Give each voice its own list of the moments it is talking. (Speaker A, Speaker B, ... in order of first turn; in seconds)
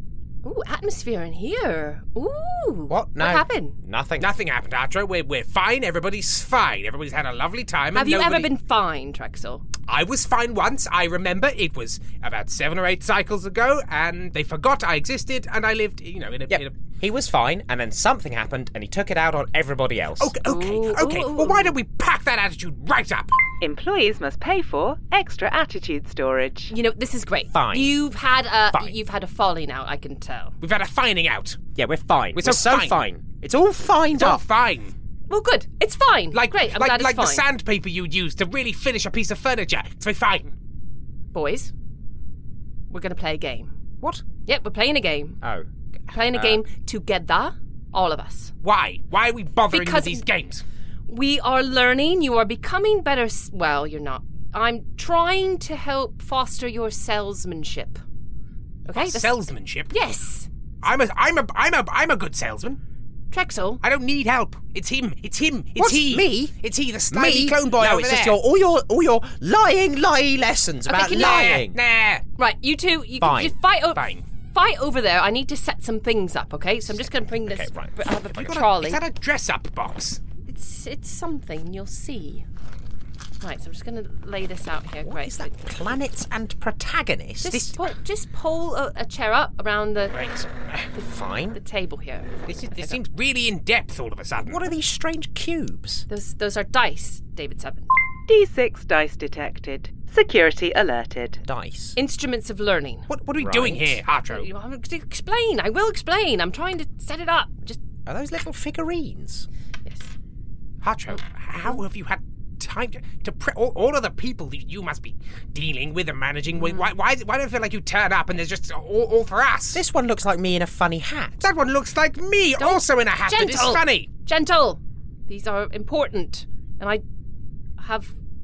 Speaker A: 0.4-3.8, 7.9-9.6, 20.4-21.8, 26.7-30.5, 35.3-37.4, 41.3-41.7, 42.9-43.7, 44.5-45.4, 46.1-48.5, 49.7-50.2, 51.1-58.0, 58.9-59.3, 59.9-60.5, 63.3-63.8, 70.9-71.6, 72.4-79.0, 80.5-82.4, 83.4-85.5, 87.4-90.1, 90.9-93.0, 96.1-97.9, 102.0-103.1, 104.3-107.8, 109.8-110.1, 111.1-111.8, 116.5-116.9, 122.6-127.0, 127.8-128.1
Speaker B: 2.9-4.3, 16.5-20.3, 27.5-27.9, 31.8-34.4, 45.4-45.7, 46.3-46.6, 65.8-66.5, 67.1-71.8, 73.2-73.5, 76.9-78.5, 85.0-87.8, 91.1-91.6, 94.4-96.0, 101.4-101.9, 103.4-104.0, 108.0-109.5, 119.7-121.4
Speaker C: 4.2-8.5, 9.8-16.7, 20.2-23.3, 30.6-31.6, 32.3-33.0, 34.1-34.9, 36.3-40.5, 48.6-50.6, 58.9-59.9, 60.8-62.8, 63.8-68.4, 70.9-72.2, 74.0-74.2, 78.4-80.2, 90.1-90.8, 92.5-94.7, 103.1-104.5, 110.8-119.8, 121.4-124.1
Speaker D: 23.6-26.7, 98.3-101.4